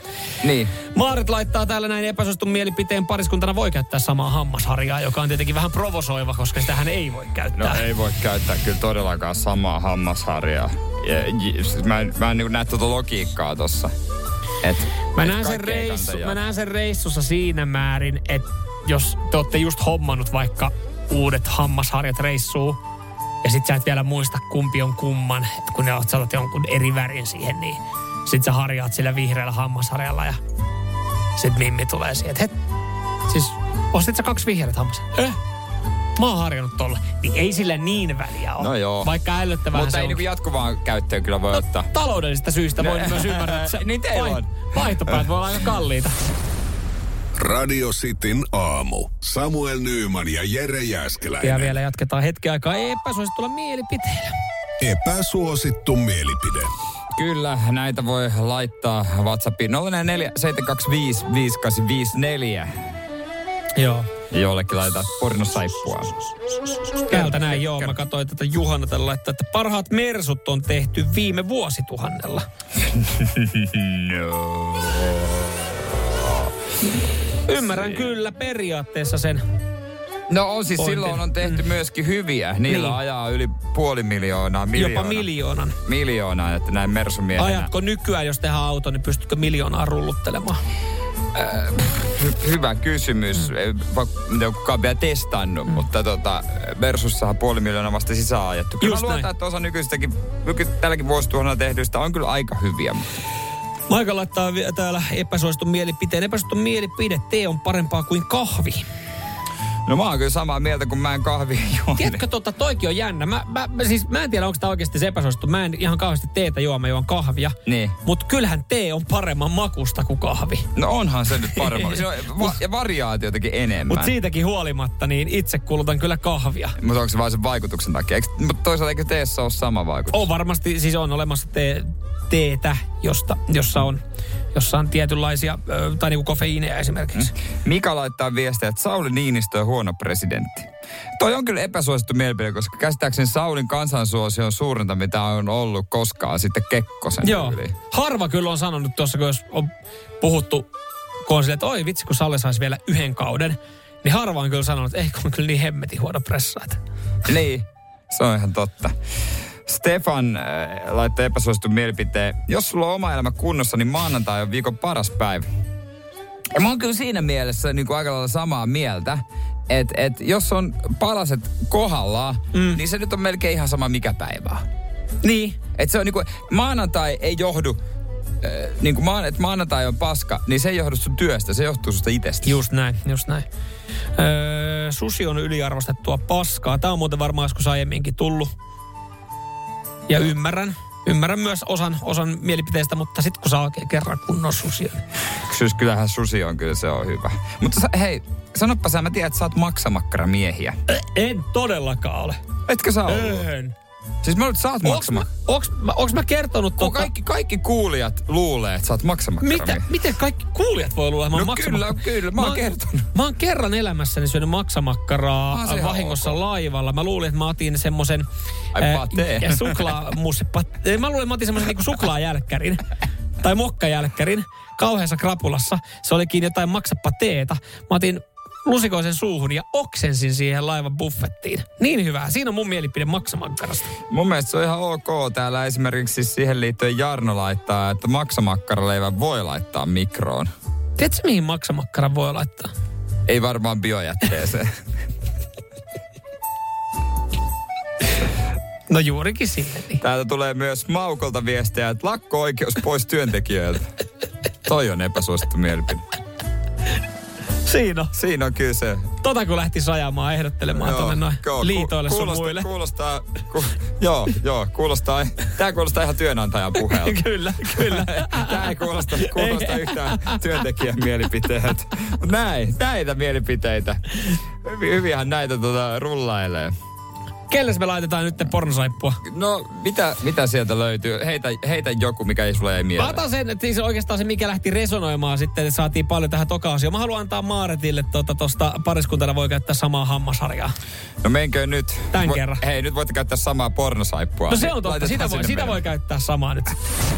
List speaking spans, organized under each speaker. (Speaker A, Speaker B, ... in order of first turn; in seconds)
Speaker A: 0.4-0.7, 7.5-13.9, 14.6-16.4, 38.6-39.1, 39.7-41.9, 42.8-45.2, 57.1-62.7, 64.3-66.2, 67.1-68.0, 72.9-76.5, 77.7-78.0, 80.3-85.3, 85.8-87.7, 91.3-103.0, 109.9-112.2, 117.7-118.0, 120.7-124.1, 126.8-130.3, 137.1-147.8, 157.2-158.9, 159.7-165.4, 166.5-174.6, 175.2-177.8, 178.4-182.6, 195.5-200.8, 202.7-203.4, 204.2-205.3, 206.8-209.8, 211.3-213.1, 215.5-216.4, 218.7-220.0, 234.1-240.5, 243.3-244.7, 250.0-253.9, 254.6-256.0, 258.1-259.1, 260.8-276.7, 279.2-283.2, 291.2-295.8
Speaker B: 0.9-7.8, 15.1-22.8, 23.4-30.4, 31.3-32.5, 33.3-35.4, 36.1-40.2, 41.7-46.2, 51.4-54.3, 63.8-64.1, 66.9-72.5, 77.5-79.4, 80.8-81.6, 82.7-83.0, 84.7-85.8, 87.4-90.6, 98.8-99.3, 103.9-108.8, 112.0-120.7, 121.5-122.5, 123.9-126.8, 130.1-134.0, 134.5-137.3, 147.2-150.7, 151.2-156.8, 172.5-172.8, 175.2-175.5, 182.4-183.4, 184.2-188.5, 190.1-195.0, 200.9-202.4, 203.1-203.8, 204.8-207.1, 209.4-222.8, 223.4-233.9, 241.0-242.7, 248.9-250.0, 257.6-258.1, 259.2-262.7, 266.8-270.4, 277.5-279.2, 283.0-290.7, 292.1-292.6, 294.5-296.8
Speaker C: 47.4-51.7, 54.8-56.7